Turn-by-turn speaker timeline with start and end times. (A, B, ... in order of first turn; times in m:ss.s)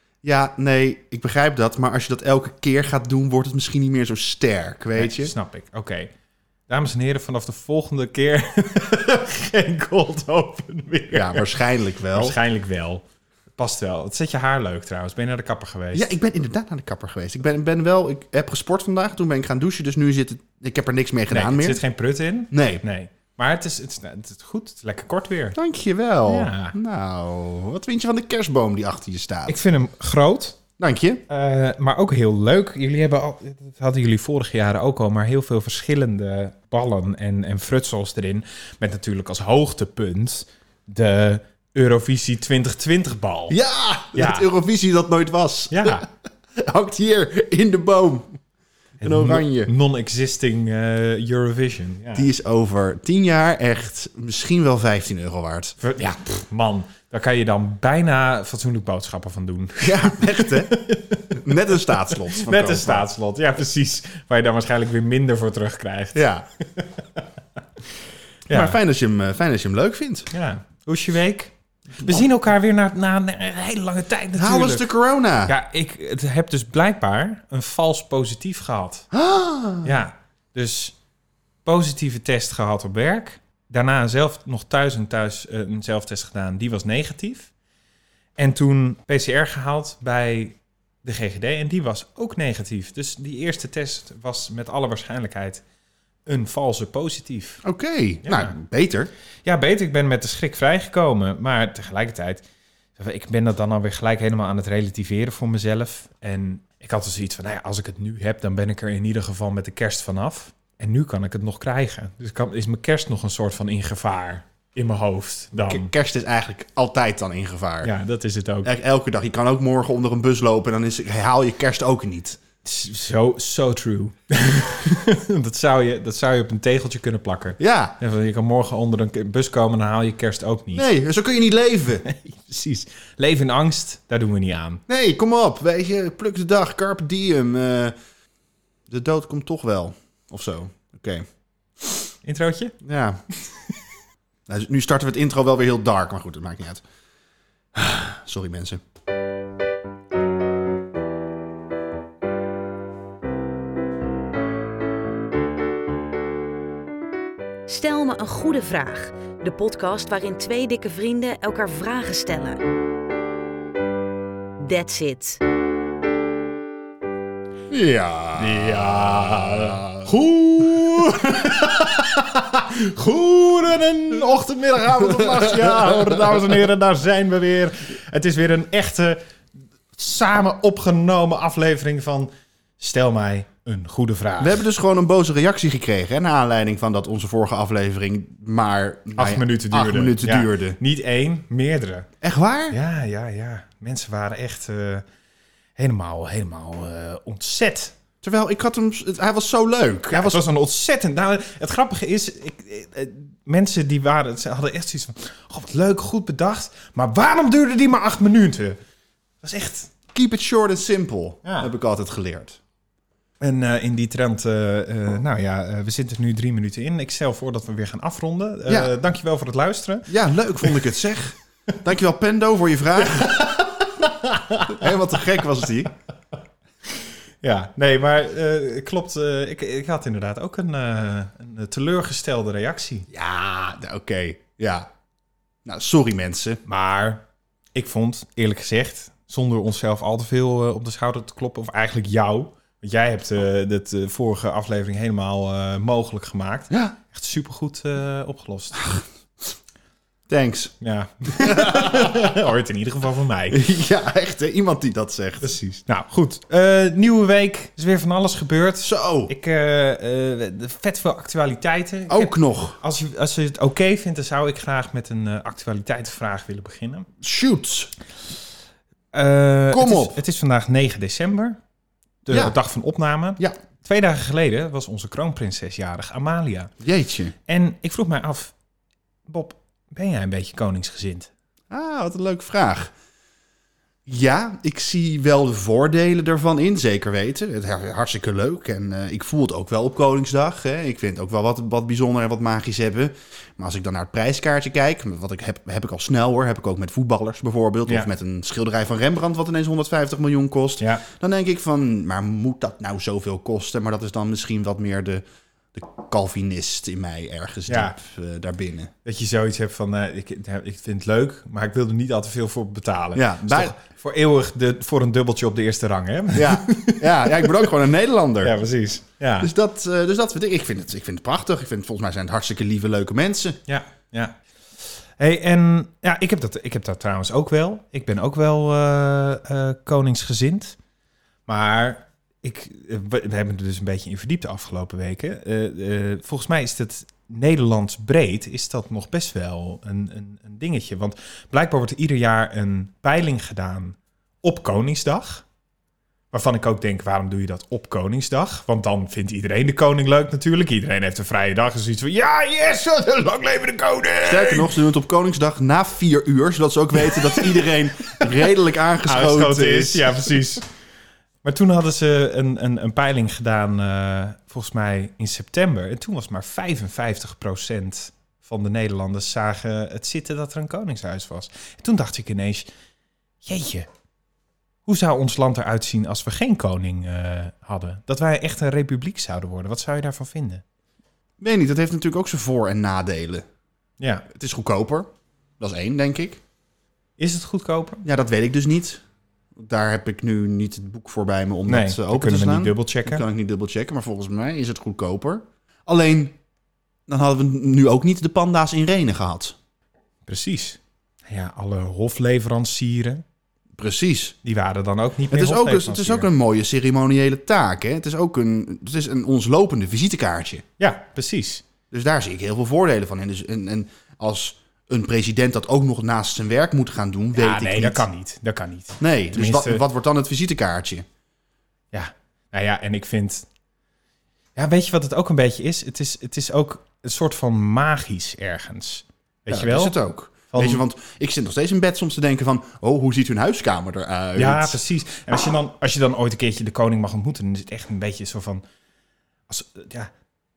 0:00.2-0:05.3 A
0:05.0-0:06.1 B
0:06.7-0:16.1 B
0:11.1-0:12.4 A
0:15.9-0:21.8 A
0:21.3-0:25.6 B
0:22.5-0:22.8 A
0:25.6-0:29.6 A
0:26.3-0:26.8 B
0:29.5-0:30.6 B
0:30.8-0:31.2 A
0:31.3-0:43.6 B
0:43.5-0:46.1 A
0:44.2-0:44.5 B
0:45.7-0:46.0 B
0:46.6-0:48.4 A
0:49.0-0:52.3 B
0:49.0-0:49.7 A
0:52.1-0:55.8 A
0:55.8-1:07.3 B
0:59.8-1:00.8 A
1:01.3-1:03.1 A
1:06.2-1:06.5 A
1:08.5-1:08.8 B
1:08.5-1:10.3 A
1:10.3-1:14.9 B
1:14.3-1:15.5 A
1:15.5-1:19.1 B
1:19.1-1:19.9 A
1:19.8-1:21.0 B
1:21.6-1:27.5 B
1:28.4-1:35.6 B
1:36.3-1:37.6 B
1:37.6-1:39.1 A
1:38.2-1:38.5 B
1:39.4-1:42.4 B
1:43.0-1:55.9 B
1:55.6-1:57.9 A
1:57.8-1:58.7 B
1:58.6-2:02.4 A
2:02.6-2:10.8 B
2:07.6-2:08.0 A
2:10.7-2:12.1 A
2:12.0-2:14.8 B
2:14.9-2:17.9 A
2:18.9-2:21.3 A
2:22.2-2:22.8 B
2:22.8-2:23.2 A
2:24.5-2:26.8 A
2:27.8-2:28.8 A
2:37.7-2:42.6 C
2:44.6-2:45.4 C
2:47.7-2:50.1 A
2:48.4-2:59.2 B
2:55.2-2:56.4 A
3:00.0-3:04.6 B
3:04.4-3:10.8 A
3:09.2-3:12.1 B
3:12.2-3:12.8 A
3:12.7-3:15.0 B
3:15.8-3:18.0 B
3:18.2-3:20.4 A
3:20.1-3:28.8 B
3:29.4-3:29.9 B
3:30.1-3:32.6 A
3:33.4-3:40.9 B
3:38.7-3:39.0 A
3:40.1-3:43.5 A
3:43.0-3:44.9 B
3:44.7-3:45.9 A
3:47.4-3:53.1 B
3:53.1-3:54.9 A
3:55.6-3:56.6 A
3:56.7-4:08.9 B
4:06.7-4:07.0 A
4:10.3-4:10.8 A
4:10.8-4:13.6 B
4:11.3-4:12.2 A
4:13.5-4:15.5 A
4:15.4-4:27.1 B
4:18.8-4:19.3 A
4:22.1-4:22.8 A
4:27.2-4:27.9 A
4:29.1-4:31.6 B
4:29.7-4:30.2 A
4:32.3-4:36.7 B
4:32.3-4:32.6 A
4:36.8-4:37.4 A
4:37.5-4:38.5 B
4:39.3-4:41.3 B
4:41.7-4:42.9 A
4:44.1-5:05.2 A
5:05.7-5:08.9 A
5:07.7-5:08.0 B
5:09.0-5:17.7 B
5:13.2-5:13.8 A
5:16.3-5:18.6 A
5:18.4-5:19.5 B
5:19.4-5:23.6 A
5:23.7-5:30.8 B
5:31.5-5:45.4 B
5:46.3-5:54.8 B
5:54.2-6:00.4 A
5:57.0-5:57.7 B
5:59.1-6:00.6 B
6:01.4-6:12.7 B
6:13.4-6:13.9 B
6:14.9-6:20.6 B
6:21.4-6:23.4 A
6:24.0-6:24.2 B
6:24.3-6:25.1 A
6:25.6-6:26.4 A
6:27.2-6:28.0 B
6:28.0-6:29.0 A
6:29.6-6:36.4 A
6:31.7-6:33.2 B
6:37.1-6:39.6 A
6:40.3-6:43.2 B
6:43.8-6:44.4 A
6:44.4-6:46.3 B
6:45.3-6:50.6 A
6:50.8-6:51.6 B
6:51.9-6:58.1 A
6:57.4-6:59.8 B
6:59.0-7:01.0 A
7:01.9-7:03.5 B
7:04.6-7:10.0 B
7:09.5-7:14.8 A
7:10.5-7:10.8 B
7:14.4-7:18.6 B
7:19.5-7:20.1 B